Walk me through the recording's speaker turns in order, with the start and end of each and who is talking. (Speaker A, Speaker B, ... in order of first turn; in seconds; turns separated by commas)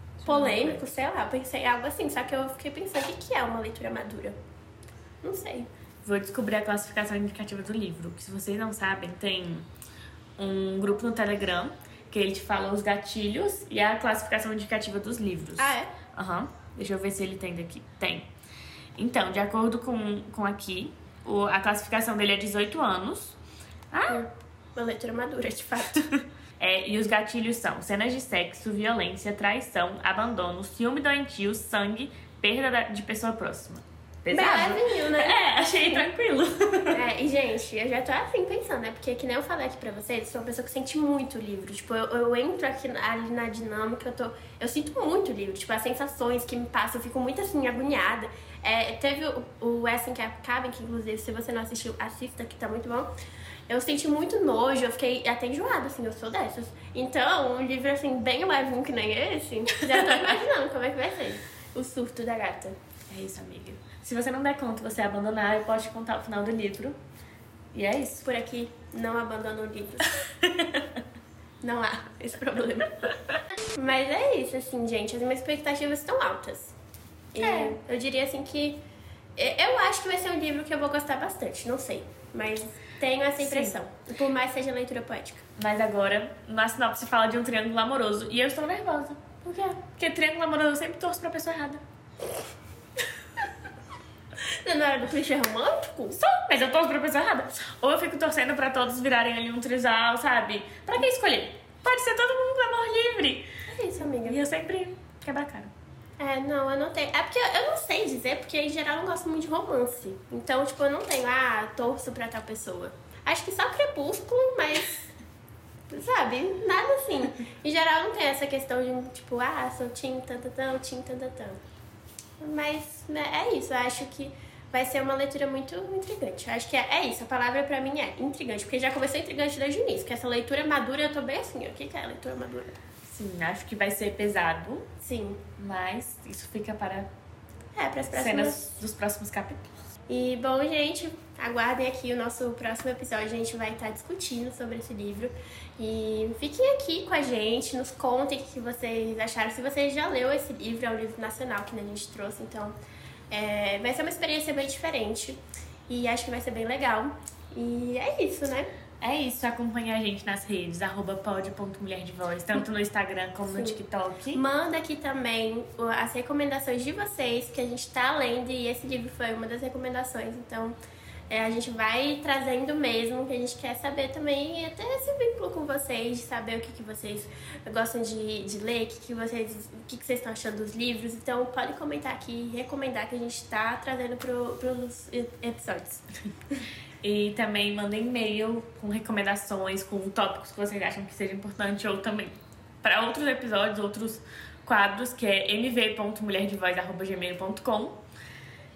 Speaker A: 0.2-0.9, Speaker B: 0.2-4.3, Speaker B: 5.2-5.7, Speaker A: 6.0-9.7, Speaker A: 10.4-18.3, Speaker B: 15.6-15.9, Speaker A: 19.0-23.4, Speaker A: 23.9-24.2, Speaker B: 24.1-26.0, Speaker A: 26.6-37.0, Speaker B: 34.3-36.1, Speaker B: 36.9-53.1, Speaker B: 53.7-62.8, Speaker A: 63.1-67.0, Speaker A: 67.7-68.3, Speaker B: 68.2-70.2, Speaker A: 70.4-70.8, Speaker B: 71.6-73.1, Speaker B: 73.7-76.7, Speaker B: 77.3-78.8, Speaker A: 77.4-77.8, Speaker B: 79.4-85.5, Speaker A: 83.4-83.8, Speaker A: 85.6-91.8, Speaker B: 94.6-96.2, Speaker A: 96.2-103.5, Speaker B: 103.7-104.4, Speaker A: 104.2-105.7, Speaker B: 106.2-115.1, Speaker B: 115.9-121.6, Speaker B: 122.4-132.8, Speaker A: 133.1-134.9, Speaker B: 135.0-135.4, Speaker A: 135.6-137.1, Speaker B: 137.8-138.8, Speaker A: 138.1-139.7, Speaker B: 140.1-152.8, Speaker B: 153.3-158.7, Speaker A: 159.0-164.4, Speaker B: 163.5-163.8, Speaker B: 164.3-170.8, Speaker B: 171.3-186.0, Speaker A: 187.0-198.0